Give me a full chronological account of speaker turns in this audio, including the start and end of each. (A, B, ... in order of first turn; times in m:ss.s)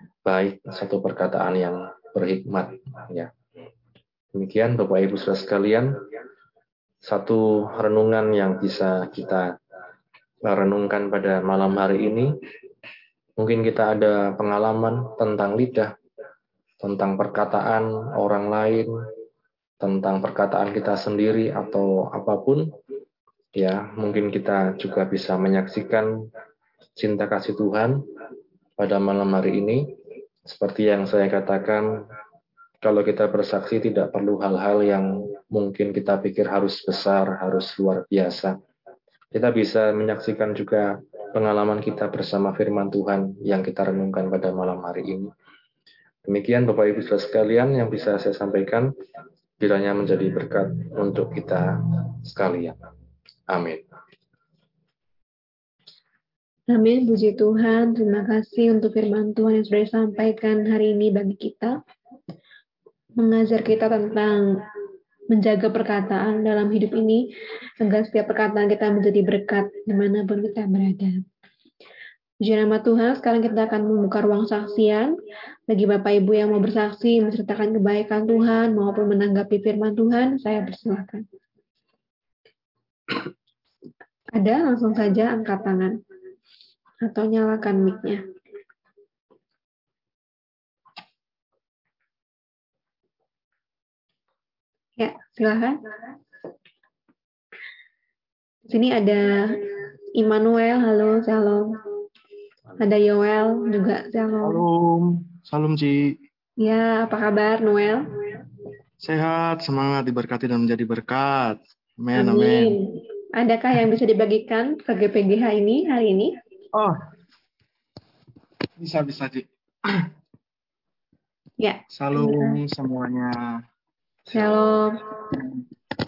0:00.3-0:03.3 A
0:04.4-0:06.0 A
0:07.0-0:09.5 A
0:10.4-0:12.3 A
0:13.4-0:15.9 A
0:16.8-0:18.9 A
0:19.8-0:22.7 A
0:23.6-0:26.1 A
0:27.0-0:28.0 A
0:28.8-0:29.8 A
0:30.5-0:31.9 A
0:32.8-0:38.5 A
0:39.3-0:45.3 A
0:46.3-0:48.9 A
0:49.6-0:51.7 A
0:52.2-0:52.8 A
0:53.5-0:53.8 A
0:56.7-1:01.8 B
1:03.2-1:04.6 B
1:05.3-1:07.2 B
1:07.8-1:11.2 B
1:12.4-1:15.1 B
1:15.7-1:21.2 B
1:24.4-1:26.0 B
1:27.0-1:28.2 B
1:35.0-1:35.8 B
1:38.7-1:39.3 B
1:40.2-1:41.8 B
1:42.8-1:44.6 B
1:44.4-1:46.2 C
1:46.6-1:48.0 B
1:49.0-1:52.8 C
1:52.2-1:56.3 B
1:58.8-2:00.1 C
2:01.6-2:02.6 B
2:01.9-2:03.6 C
2:04.3-2:05.2 B